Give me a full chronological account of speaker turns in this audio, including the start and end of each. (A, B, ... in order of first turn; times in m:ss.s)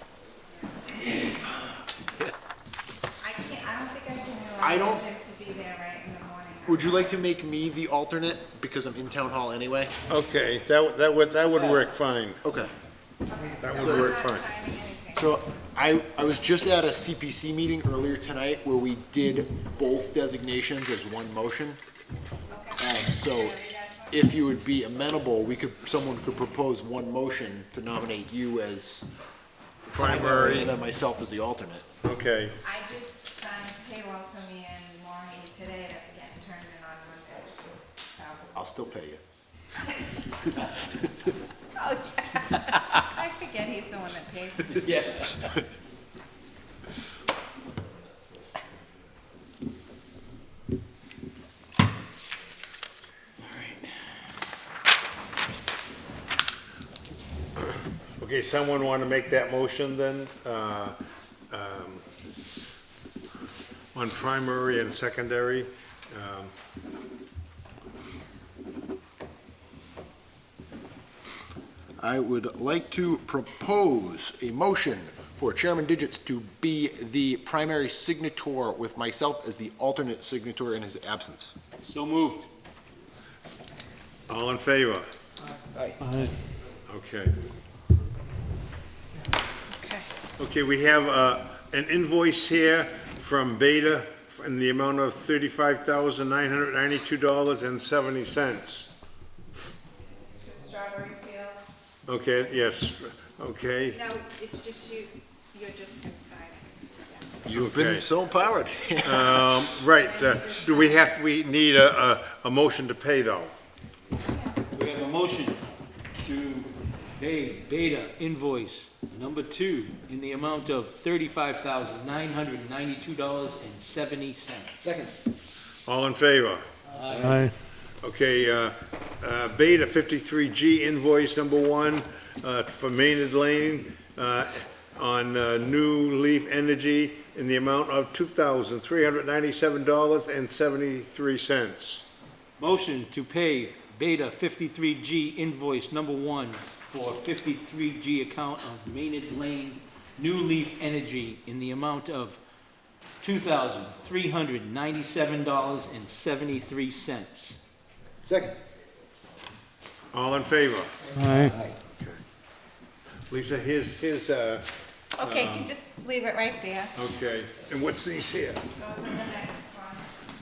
0:00.5-0:01.2 A
0:03.2-0:07.1 A
0:04.6-0:05.3 B
0:06.7-0:09.9 B
0:10.1-0:12.4 C
0:12.4-0:12.7 B
0:13.3-0:15.4 A
0:13.6-0:14.4 C
0:13.6-0:14.2 B
0:15.1-0:21.8 B
0:22.5-0:24.3 A
0:22.8-0:29.1 B
0:29.9-0:31.9 B
0:29.9-0:30.8 C
0:32.0-0:32.6 C
0:32.6-0:38.5 A
0:38.5-0:39.2 B
0:41.7-0:45.3 A
0:44.8-0:45.5 D
0:53.5-0:53.9 D
0:57.6-1:01.0 C
1:01.5-1:02.0 C
1:03.9-1:06.5 C
1:12.0-1:21.6 B
1:21.8-1:22.5 D
1:24.3-1:25.1 C
1:26.9-1:27.4 C
1:29.8-1:30.1 A
1:30.4-1:38.9 C
1:40.0-1:41.8 A
1:42.1-1:44.0 C
1:44.0-1:47.4 A
1:47.4-1:48.1 C
1:47.5-1:49.7 B
1:49.0-1:53.5 C
1:50.0-1:51.1 A
1:54.2-1:54.6 A
1:54.7-1:55.6 D
1:56.2-2:05.0 D
2:04.8-2:05.1 B
2:05.9-2:06.7 C
2:06.9-2:07.6 D
2:08.0-2:22.0 C
2:22.6-2:32.4 D
2:33.2-2:37.6 D
2:38.2-2:38.6 B
2:40.1-2:41.3 C
2:43.3-2:45.7 C
2:45.2-2:46.9 A
2:46.9-2:48.7 C
2:48.8-2:50.2 A